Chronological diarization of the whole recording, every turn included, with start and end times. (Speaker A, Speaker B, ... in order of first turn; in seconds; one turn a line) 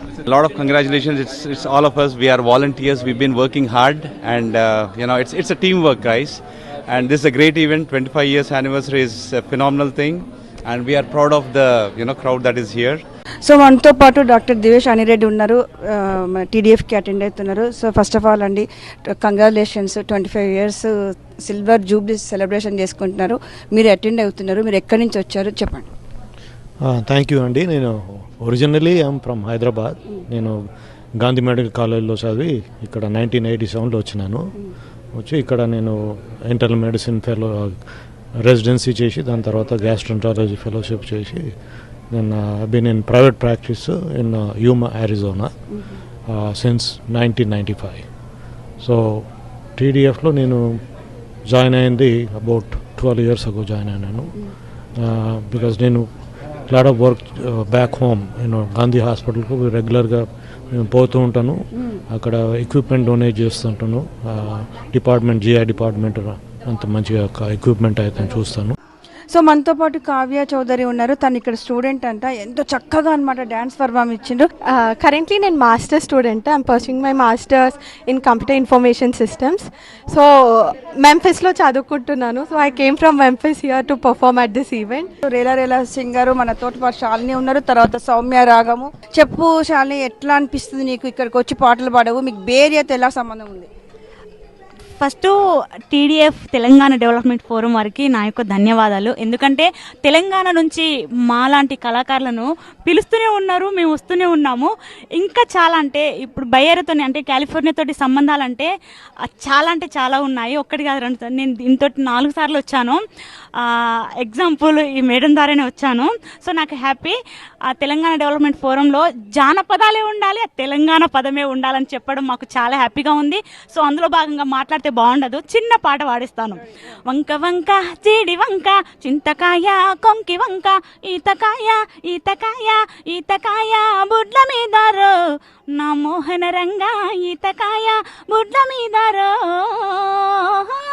Speaker A: 0.3-13.0
Speaker B: 13.4-18.6
Speaker B: 19.2-20.9
Speaker B: 21.4-25.9
Speaker C: 26.8-34.6
Speaker C: 35.1-68.7
Speaker B: 69.3-74.5
Speaker D: 75.0-79.6
Speaker D: 81.0-85.0
Speaker B: 85.2-93.7
Speaker E: 95.0-95.3
Speaker E: 95.9-108.7
Speaker E: 109.3-113.0
Speaker E: 114.2-117.1
Speaker E: 117.7-135.1
Speaker E: 135.8-139.3